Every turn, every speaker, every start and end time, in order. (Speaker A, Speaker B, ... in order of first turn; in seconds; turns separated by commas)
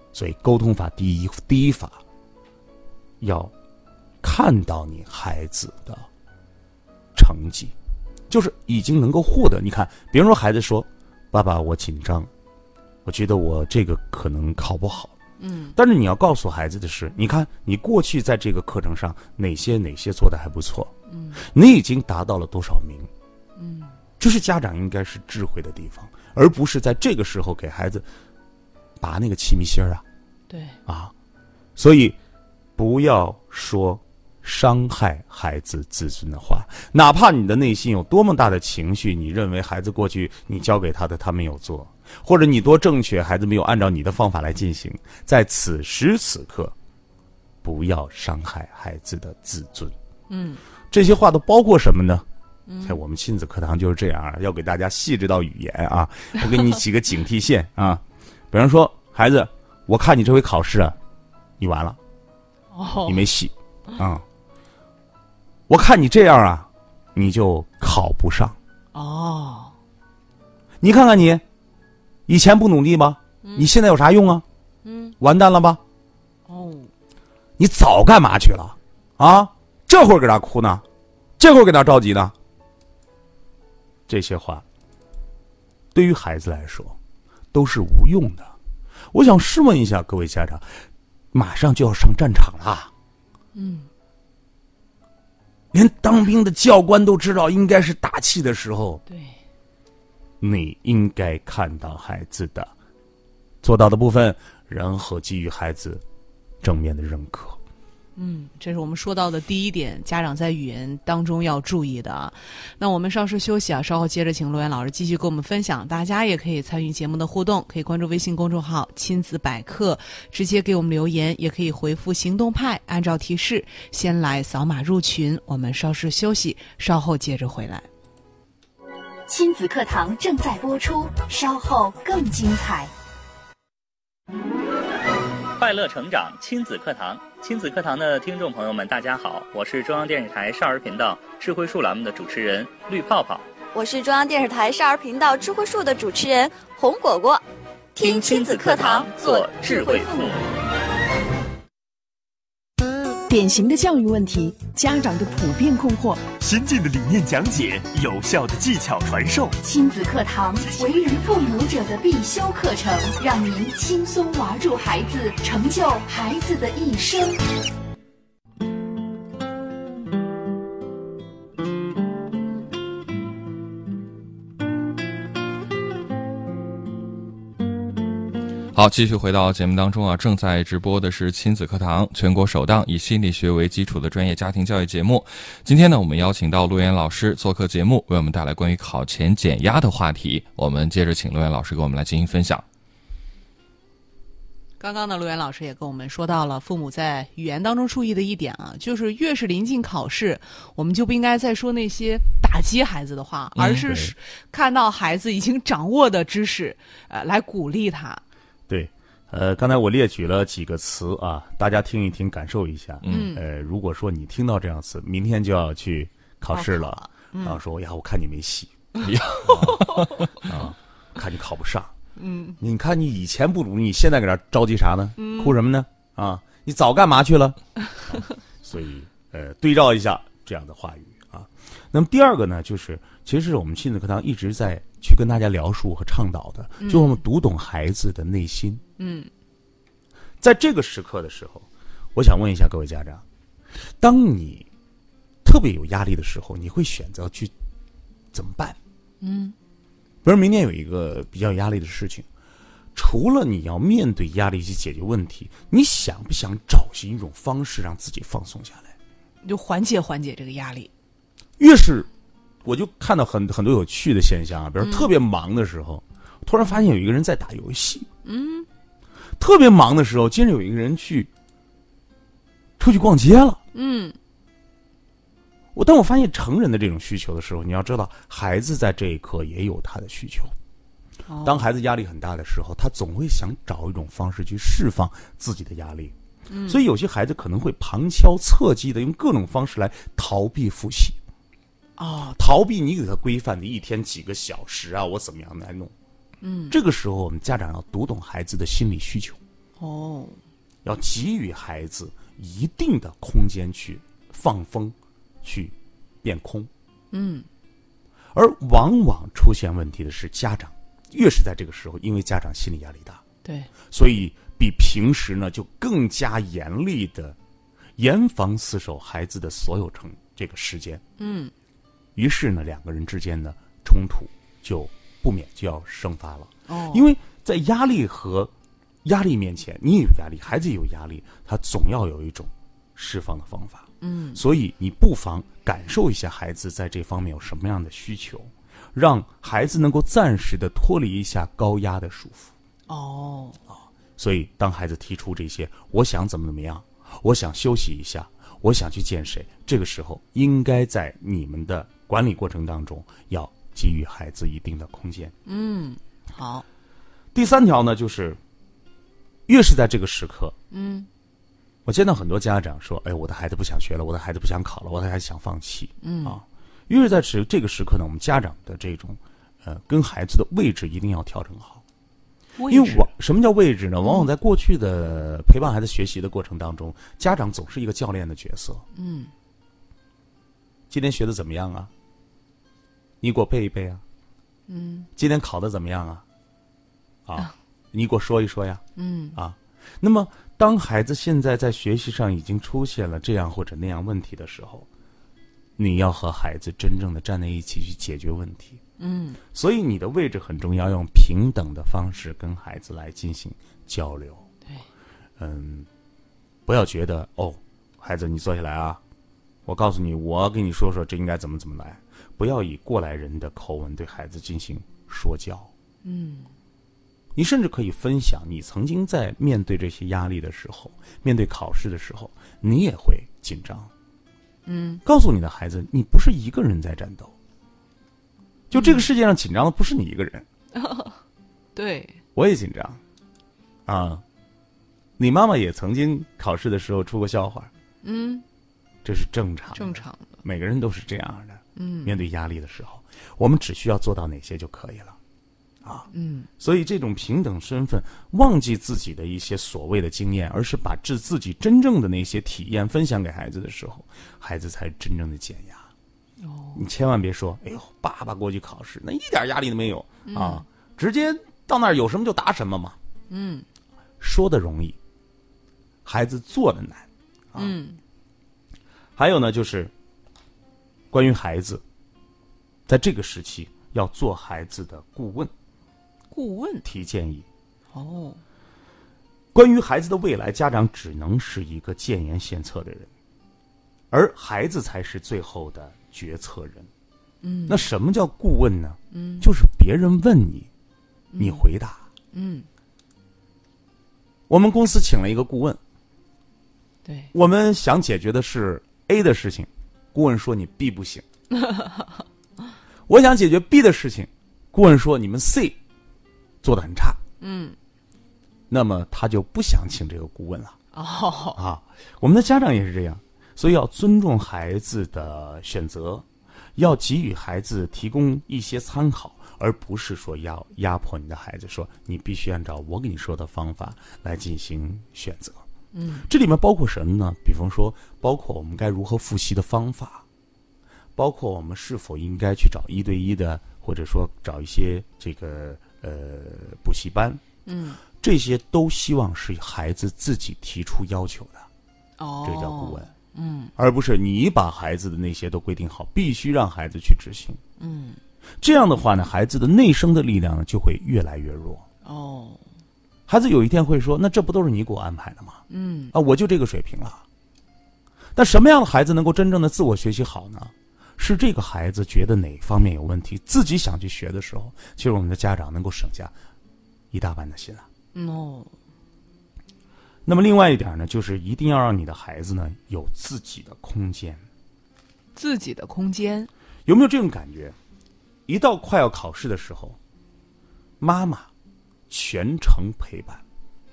Speaker A: 0.1-2.0, Speaker A: 3.2-3.5, Speaker A: 4.2-6.1, Speaker A: 7.1-7.7, Speaker A: 8.3-12.3, Speaker A: 13.0-15.1, Speaker B: 15.4-15.8, Speaker A: 15.8-23.1, Speaker B: 21.1-21.4, Speaker B: 23.6-23.9, Speaker A: 24.2-28.1, Speaker A: 29.0-30.0, Speaker B: 30.5-30.8, Speaker A: 30.9-31.1, Speaker A: 31.8-32.2, Speaker A: 32.8-46.7, Speaker A: 47.6-49.9, Speaker B: 50.3-50.6, Speaker A: 50.9-52.2, Speaker B: 52.7-53.0, Speaker A: 52.8-61.0, Speaker A: 61.6-62.0, Speaker B: 62.7-63.2, Speaker A: 63.0-64.2, Speaker A: 65.7-68.6, Speaker B: 68.9-69.7, Speaker A: 70.8-71.4, Speaker A: 72.3-74.4, Speaker B: 73.4-73.7, Speaker B: 74.8-75.2, Speaker A: 75.2-75.8, Speaker B: 76.5-76.9, Speaker A: 77.6-80.8, Speaker A: 81.4-82.3, Speaker A: 84.1-84.6, Speaker A: 85.9-87.0, Speaker A: 87.5-88.5, Speaker A: 89.1-90.7, Speaker A: 91.3-92.9, Speaker B: 93.5-93.9, Speaker A: 95.7-99.0, Speaker B: 99.1-99.4, Speaker A: 100.4-102.7, Speaker A: 103.6-106.0, Speaker A: 106.6-107.6, Speaker B: 108.2-127.9, Speaker C: 129.3-132.9, Speaker D: 135.6-143.5, Speaker E: 143.7-147.4, Speaker E: 147.9-150.3, Speaker D: 148.0-150.5, Speaker F: 153.3-156.2, Speaker G: 156.4-159.6, Speaker C: 159.6-167.4, Speaker H: 178.7-192.6, Speaker B: 194.8-208.2, Speaker H: 203.6-203.8, Speaker A: 203.7-204.1, Speaker A: 208.7-218.8, Speaker H: 213.0-213.3, Speaker B: 213.1-213.4, Speaker B: 216.5-217.6, Speaker H: 219.0-220.3, Speaker A: 219.4-219.8, Speaker B: 219.4-220.3, Speaker A: 220.4-221.9, Speaker B: 222.2-222.6, Speaker A: 222.6-238.8, Speaker B: 225.2-225.6, Speaker B: 236.8-237.2, Speaker B: 239.0-239.3, Speaker A: 240.4-243.2, Speaker A: 244.0-244.7, Speaker A: 245.4-247.5, Speaker A: 248.3-248.8, Speaker B: 249.2-249.6, Speaker A: 250.2-252.3, Speaker A: 252.9-258.9, Speaker B: 259.4-260.9, Speaker A: 261.6-262.1, Speaker A: 262.6-268.1, Speaker B: 264.8-265.1, Speaker B: 268.2-268.7, Speaker A: 269.4-271.3, Speaker A: 272.8-273.6, Speaker B: 273.7-274.2, Speaker A: 275.7-280.5, Speaker B: 281.3-281.7, Speaker A: 281.4-286.1, Speaker B: 286.5-286.8, Speaker A: 286.7-291.2, Speaker B: 292.0-292.4, Speaker A: 292.4-295.9, Speaker B: 296.4-296.8, Speaker A: 296.7-299.4, Speaker B: 299.8-300.4, Speaker A: 300.8-306.7, Speaker B: 307.1-307.4, Speaker A: 308.3-313.2, Speaker B: 313.4-313.7, Speaker A: 313.8-317.4, Speaker A: 318.0-321.0, Speaker B: 321.2-321.5, Speaker A: 322.1-328.5, Speaker B: 326.7-327.1, Speaker A: 329.0-342.5, Speaker B: 334.0-334.4, Speaker B: 342.9-343.6, Speaker A: 343.7-355.3, Speaker B: 355.4-356.6, Speaker A: 357.3-358.4, Speaker A: 359.5-360.5, Speaker B: 360.7-361.1, Speaker A: 361.8-371.8, Speaker B: 366.0-366.4, Speaker B: 372.6-373.1, Speaker A: 372.7-378.8, Speaker B: 374.0-374.3, Speaker B: 378.9-379.3, Speaker A: 380.9-381.9, Speaker A: 383.2-384.0, Speaker B: 384.7-385.1, Speaker A: 385.1-386.2, Speaker A: 387.2-388.8, Speaker B: 388.9-389.4, Speaker A: 389.3-394.9, Speaker A: 395.8-398.8, Speaker B: 399.0-399.4, Speaker A: 399.5-404.4, Speaker A: 405.4-405.9, Speaker A: 406.6-409.0, Speaker A: 409.6-415.7, Speaker B: 416.0-416.5, Speaker A: 417.3-423.9, Speaker B: 424.6-425.0, Speaker A: 425.0-427.3, Speaker A: 428.7-430.4, Speaker B: 428.7-429.1, Speaker B: 430.7-431.2, Speaker B: 431.7-432.2, Speaker A: 432.3-433.0, Speaker A: 433.9-434.2, Speaker A: 435.2-437.7, Speaker B: 438.0-438.4, Speaker A: 439.0-445.1, Speaker B: 439.7-440.4, Speaker B: 441.8-442.1, Speaker B: 446.1-446.5, Speaker A: 446.6-455.9, Speaker B: 456.4-456.8, Speaker A: 456.7-462.9, Speaker B: 460.2-460.6, Speaker B: 463.3-463.6, Speaker A: 464.2-465.0, Speaker A: 466.0-467.7, Speaker B: 467.6-468.0, Speaker A: 469.1-469.9, Speaker A: 471.1-471.8, Speaker A: 472.9-475.5, Speaker B: 476.3-476.8, Speaker A: 476.8-477.4, Speaker B: 477.9-478.4, Speaker A: 479.5-483.1, Speaker A: 484.1-486.9, Speaker B: 487.4-487.9, Speaker A: 487.7-490.7, Speaker B: 489.1-489.5, Speaker B: 491.3-491.6, Speaker A: 491.4-492.0, Speaker B: 492.3-492.7, Speaker A: 494.5-495.8, Speaker B: 497.0-497.3, Speaker A: 497.3-501.2, Speaker B: 501.6-502.1, Speaker A: 503.1-505.8, Speaker A: 506.6-507.2, Speaker B: 507.4-507.8, Speaker A: 508.7-510.8, Speaker B: 510.9-511.6, Speaker A: 511.5-516.2, Speaker A: 516.8-525.6, Speaker B: 525.9-526.3, Speaker A: 526.3-530.2, Speaker A: 531.1-537.4, Speaker B: 537.6-538.0, Speaker A: 538.2-541.7, Speaker B: 542.2-543.7, Speaker A: 542.4-543.1, Speaker A: 543.8-547.6, Speaker B: 547.8-548.2, Speaker A: 548.6-551.9, Speaker B: 552.0-552.6, Speaker A: 553.3-557.2, Speaker B: 555.7-556.1, Speaker A: 558.3-566.3, Speaker A: 567.1-567.9, Speaker B: 568.1-568.7, Speaker A: 570.2-574.4, Speaker B: 575.3-576.5, Speaker A: 576.9-577.8, Speaker A: 578.5-580.0, Speaker A: 581.0-581.5, Speaker A: 582.1-583.4